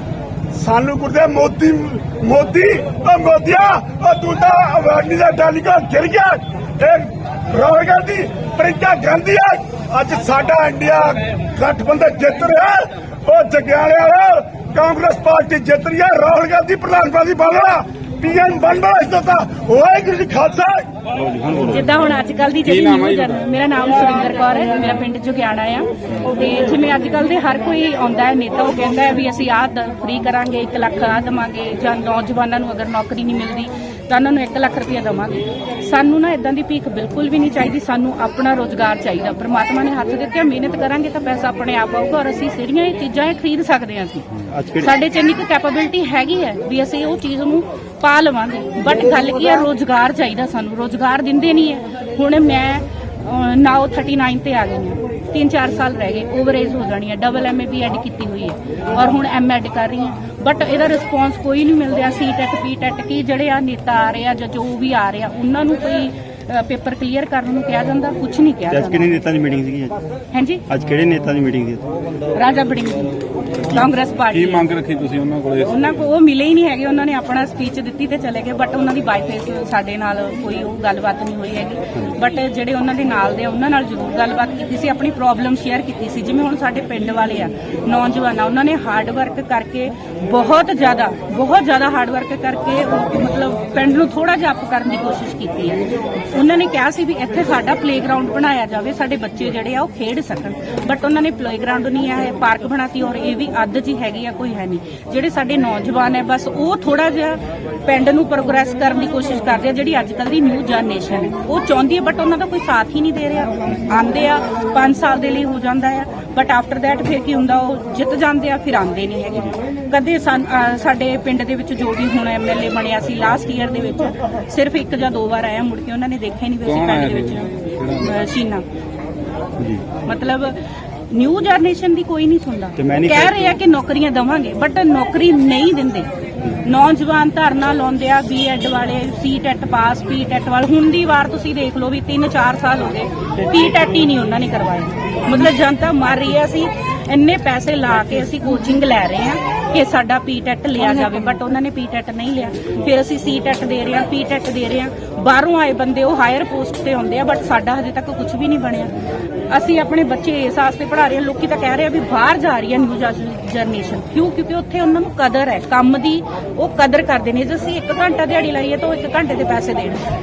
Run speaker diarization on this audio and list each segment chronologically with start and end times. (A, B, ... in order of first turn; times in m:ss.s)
0:00.5-0:20.8 A
0:21.1-0:21.8 B
0:21.7-0:44.2 C
0:22.6-0:23.4 D
0:44.5-0:44.9 B
0:44.8-1:09.0 C
1:08.7-1:10.0 B
1:10.3-1:10.6 C
1:10.7-1:11.8 B
1:12.4-1:13.1 C
1:13.7-1:14.7 C
1:14.3-1:15.8 D
1:15.7-1:35.8 C
1:36.3-2:08.6 C
2:06.6-2:08.2 D
2:09.6-2:09.8 B
2:10.1-2:10.5 C
2:11.1-2:16.1 C
2:12.8-2:13.6 B
2:16.6-2:38.9 C
2:39.5-2:50.0 C